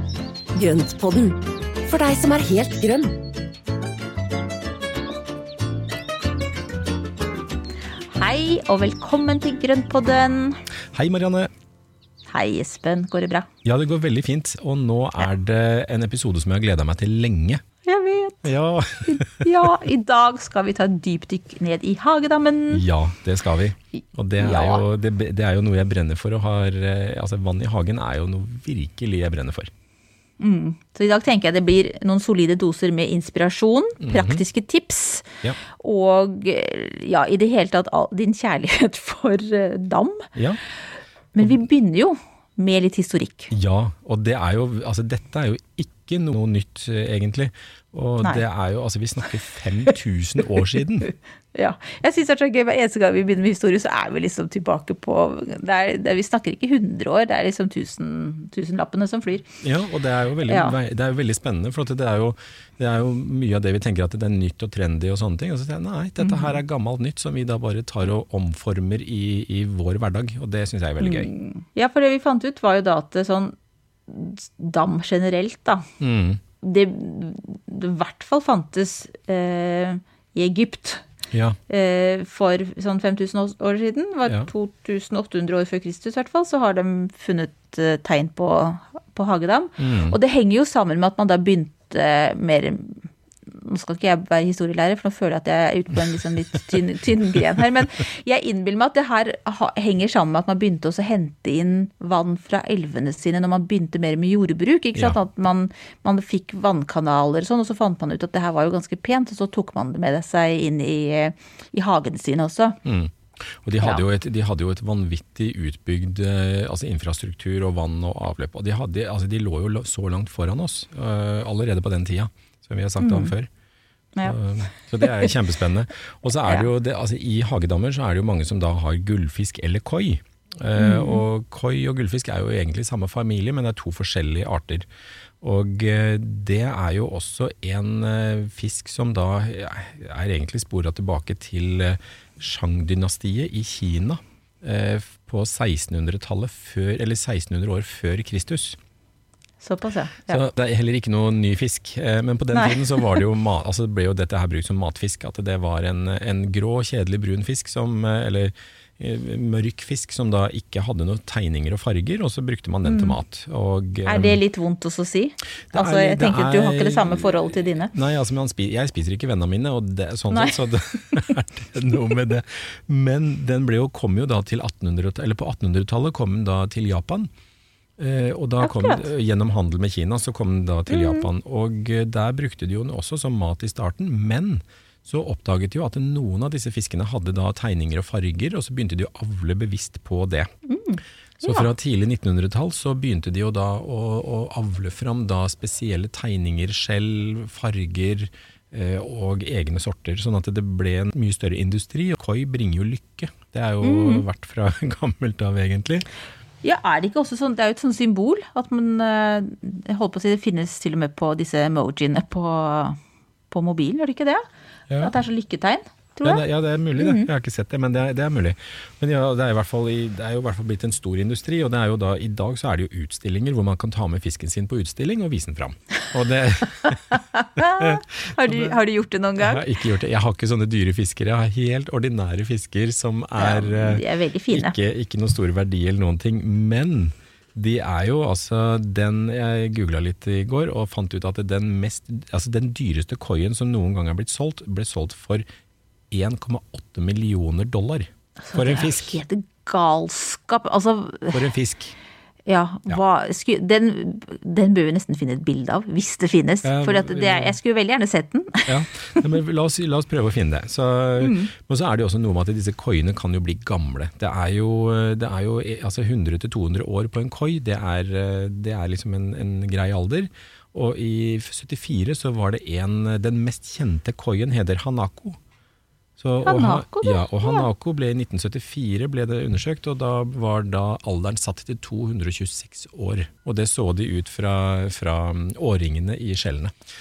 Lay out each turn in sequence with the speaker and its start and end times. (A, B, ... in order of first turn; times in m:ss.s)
0:00.5-0:03.1 A
0:08.1-0:10.6 B
0:10.9-0:11.5 C
0:12.3-0:13.5 B
0:13.6-0:17.6 C
0:17.8-0:18.5 B
0:18.4-0:19.7 C
0:19.0-0:22.8 B
0:22.7-0:29.7 C
0:24.0-0:24.8 B
0:30.4-0:40.3 B
0:34.0-0:34.4 C
0:40.3-0:40.6 C
0:41.3-0:43.5 B
0:43.5-0:51.1 C
0:51.5-0:59.5 B
0:59.6-1:11.3 C
1:00.5-1:00.8 B
1:06.2-1:06.6 B
1:11.0-1:13.5 B
1:14.1-1:15.9 B
1:16.0-1:16.4 C
1:16.6-1:21.0 B
1:21.3-1:21.6 C
1:21.7-1:52.8 B
1:29.8-1:30.2 C
1:52.8-2:03.5 C
2:03.0-2:03.3 B
2:04.2-2:14.9 C
2:05.0-2:05.3 B
2:10.8-2:11.2 B
2:15.4-2:28.8 C
2:29.6-2:30.4 B
2:30.3-2:44.4 C
2:32.5-2:33.1 B
2:42.8-2:43.2 B
2:44.0-2:47.9 B
2:45.7-2:57.3 C
2:50.3-2:51.3 B
2:58.0-3:10.5 C
2:58.6-2:59.1 B
3:00.9-3:01.3 B
3:10.7-3:11.7 B
3:11.4-3:26.0 C
3:23.8-3:24.2 B
3:26.6-3:33.0 B
3:33.5-3:34.4 B
3:34.9-3:35.1 C
3:35.0-3:36.4 B
3:36.2-3:48.8 C
3:37.0-3:37.3 B
3:46.8-3:49.6 B
3:49.4-4:05.4 C
3:53.4-3:54.7 B
4:06.1-4:09.2 C
4:08.4-4:11.4 B
4:11.3-4:11.9 C
4:12.5-4:19.2 B
4:16.6-4:17.6 C
4:18.7-4:35.4 C
4:21.2-4:21.5 B
4:36.2-4:46.7 C
4:36.4-4:37.7 B